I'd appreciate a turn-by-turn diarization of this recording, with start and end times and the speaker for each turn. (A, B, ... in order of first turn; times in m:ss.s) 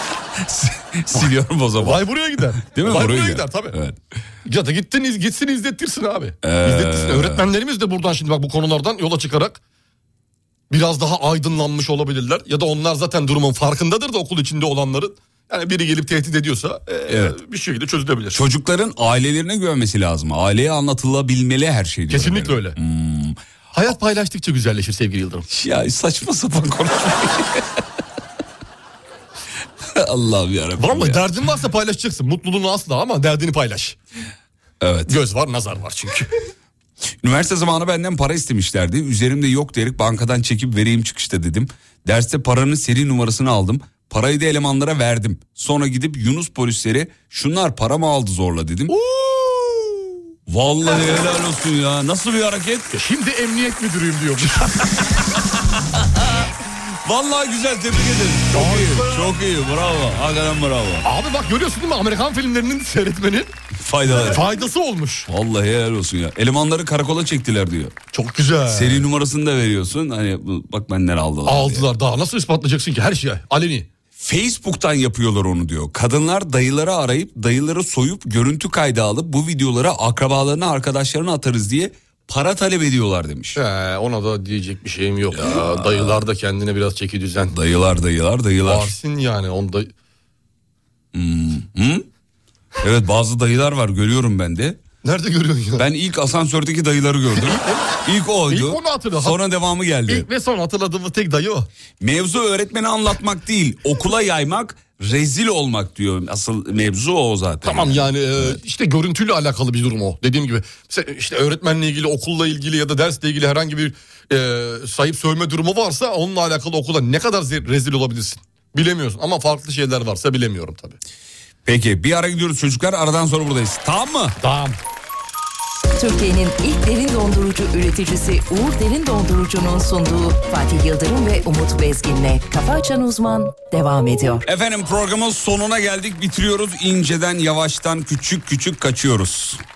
0:00.4-0:04.0 A
0:01.1-0:03.8 B
0:04.4-0:09.6 B
0:06.4-0:07.5 A
0:10.7-0:18.4 B
0:17.1-0:17.4 A
0:18.3-0:23.4 A
0:22.1-0:22.8 B
0:23.7-0:25.5 B
0:25.5-0:27.8 A
0:29.8-0:31.2 A
0:30.8-0:34.0 B
0:34.8-0:35.2 A
0:35.1-0:36.3 B
0:37.2-0:48.9 A
0:48.9-0:50.2 B
0:50.5-0:52.9 A
0:52.9-0:54.9 B
0:54.4-0:55.2 A
0:56.0-0:56.5 A
0:57.0-1:01.1 A
0:58.5-0:59.4 B
1:01.0-1:03.5 B
1:03.8-1:04.4 A
1:04.1-1:05.3 B
1:05.3-1:08.0 A
1:08.1-1:09.0 B
1:08.7-1:11.9 A
1:11.5-1:13.9 B
1:14.2-1:23.6 A
1:23.6-1:27.5 B
1:25.3-1:26.2 A
1:27.5-1:28.9 A
1:28.6-1:29.9 B
1:31.1-1:32.1 A
1:32.8-1:34.8 A
1:35.0-1:35.9 B
1:35.8-1:40.3 A
1:37.3-1:38.0 B
1:38.5-1:39.4 B
1:40.1-1:41.7 B
1:42.0-1:48.6 A
1:47.6-2:01.0 B
2:01.6-2:04.4 A
2:04.4-2:04.8 B
2:06.0-2:14.4 C
2:14.4-2:19.6 A